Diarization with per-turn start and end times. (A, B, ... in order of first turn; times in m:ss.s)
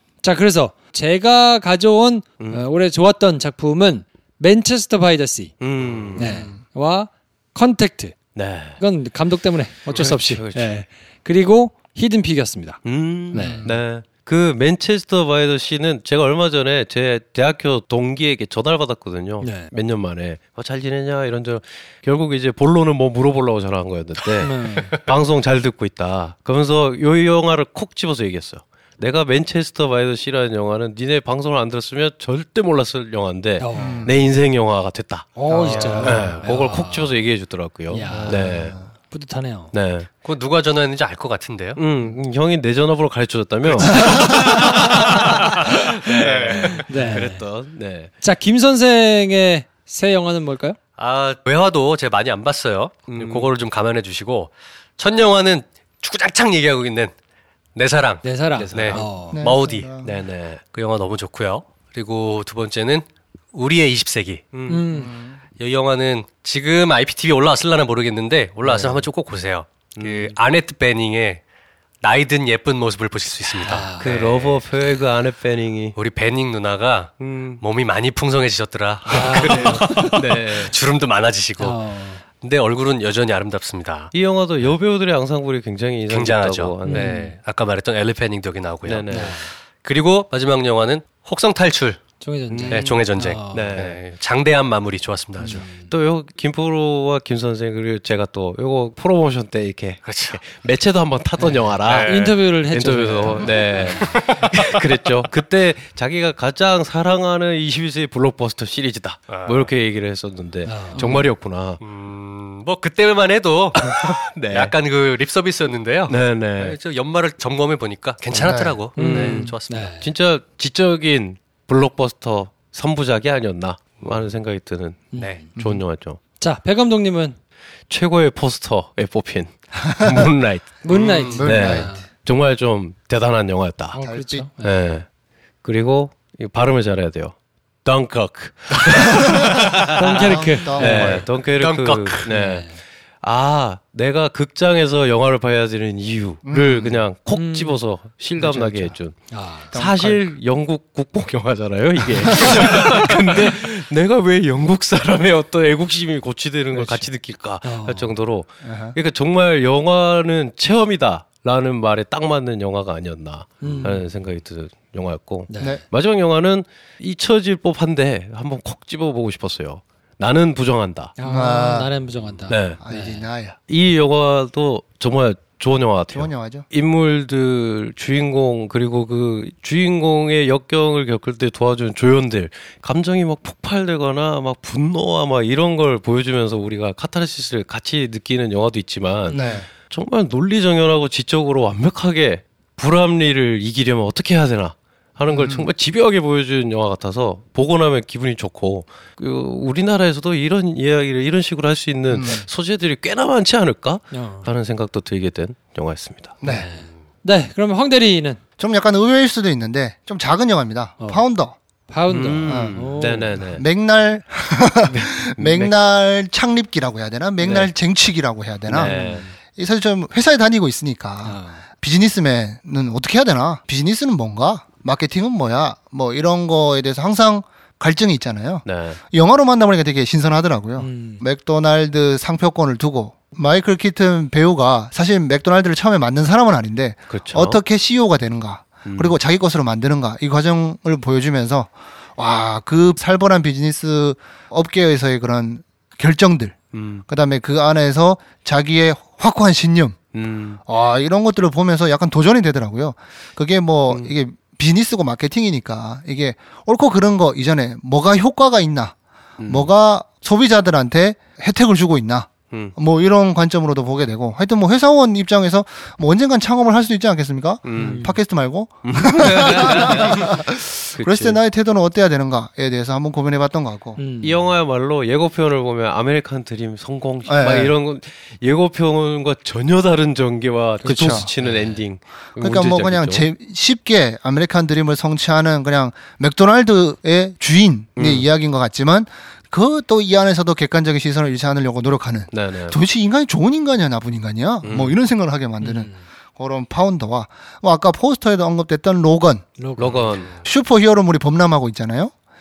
0:00.2-0:05.5 A
0:05.6-0:06.5 B
0:06.2-0:08.2 A
0:06.2-0:06.6 C
0:08.3-0:08.8 B
0:08.8-0:13.6 A
0:09.9-0:10.8 B
0:12.8-0:38.8 B
0:13.3-0:13.8 C
0:19.4-0:19.7 A
0:24.4-0:24.9 A
0:33.6-0:34.0 A
0:33.7-0:34.1 C
0:35.4-0:37.1 A
0:35.4-0:36.3 C
0:37.9-0:39.7 A
0:38.1-0:38.9 C
0:39.7-0:40.1 B
0:40.2-0:41.8 D
0:41.8-0:48.1 B
0:43.6-0:44.6 D
0:46.0-0:46.8 D
0:46.9-0:47.4 A
0:48.2-0:50.8 A
0:51.0-0:57.1 D
0:53.1-0:53.5 B
0:57.7-1:00.0 D
0:58.2-0:59.4 A
0:58.6-0:59.2 B
0:59.3-1:00.1 C
1:00.0-1:00.6 B
1:00.7-1:04.4 D
1:04.5-1:04.9 B
1:04.7-1:05.1 A
1:04.9-1:05.4 C
1:05.6-1:11.4 D
1:08.6-1:09.1 B
1:10.0-1:10.4 B
1:12.0-1:14.6 D
1:13.6-1:14.0 A
1:14.0-1:16.0 B
1:16.0-1:21.9 D
1:17.2-1:17.6 B
1:19.1-1:20.7 B
1:19.1-1:20.2 A
1:21.6-1:22.2 A
1:22.4-1:24.1 D
1:24.1-1:27.3 B
1:26.1-1:32.0 D
1:26.9-1:27.4 A
1:28.8-1:29.4 B
1:29.1-1:29.5 A
1:32.2-1:33.7 A
1:32.5-1:34.0 B
1:32.7-1:35.6 D
1:35.4-1:35.9 A
1:35.4-1:51.8 B
1:40.0-1:40.4 D
1:41.4-1:44.1 A
1:41.8-1:42.4 D
1:43.5-1:44.6 D
1:49.3-1:49.7 D
1:50.6-1:51.3 A
1:51.8-1:59.9 D
1:54.0-1:54.7 B
1:56.1-1:56.8 B
1:58.3-2:06.2 B
1:58.4-1:58.8 C
1:59.0-2:00.1 A
2:04.0-2:04.2 D
2:05.1-2:05.4 A
2:05.2-2:05.4 D
2:05.6-2:05.8 C
2:06.4-2:07.4 A
2:07.9-2:10.8 B
2:09.9-2:10.3 C
2:10.8-2:12.0 A
2:10.9-2:11.4 D
2:10.9-2:11.9 C
2:11.4-2:14.0 B
2:13.9-2:14.7 A
2:14.0-2:14.5 C
2:14.6-2:15.1 B
2:15.6-2:51.2 B
2:20.0-2:21.1 A
2:20.1-2:21.2 C
2:20.8-2:22.3 D
2:22.3-2:22.8 A
2:26.4-2:27.0 C
2:27.3-2:27.8 A
2:28.4-2:29.2 C
2:29.3-2:29.7 A
2:29.7-2:30.3 C
2:32.4-2:33.0 C
2:36.7-2:37.1 C
2:37.6-2:38.2 A
2:38.6-2:38.9 C
2:43.6-2:44.0 A
2:45.5-2:45.8 A
2:51.2-2:53.2 A
2:51.2-2:51.9 C
2:52.5-2:52.8 B
2:52.7-2:53.6 C
2:53.7-3:26.4 B
2:56.1-2:56.6 C
3:09.3-3:09.7 C
3:15.3-3:15.7 C
3:22.1-3:22.4 C
3:24.1-3:24.5 A
3:26.4-3:26.7 C
3:26.4-3:28.4 A
3:28.6-3:31.6 C
3:31.9-3:33.4 A
3:32.1-3:33.6 B
3:32.4-4:10.0 C
3:35.1-3:35.7 B
3:38.7-3:39.2 B
3:38.7-3:39.4 A
3:41.2-3:41.6 A
3:48.6-3:49.0 B
3:50.8-3:51.2 A
3:57.1-3:57.6 B
3:58.8-3:59.2 B
4:06.7-4:07.0 B
4:10.1-4:10.6 B
4:10.6-4:34.0 C
4:19.4-4:19.7 B
4:27.6-4:28.2 B
4:27.7-4:28.1 A
4:28.8-4:30.4 B
4:30.9-4:31.4 B
4:34.0-4:34.4 A
4:34.2-4:43.2 B
4:37.2-4:37.7 C
4:40.8-4:41.8 A
4:40.8-4:41.3 C
4:42.4-4:59.6 C
4:48.0-4:48.2 B
4:52.3-4:52.8 B
4:54.6-4:55.0 B
4:55.6-4:56.0 A
4:59.6-5:00.2 A
4:59.8-5:00.4 B
5:00.3-5:02.1 C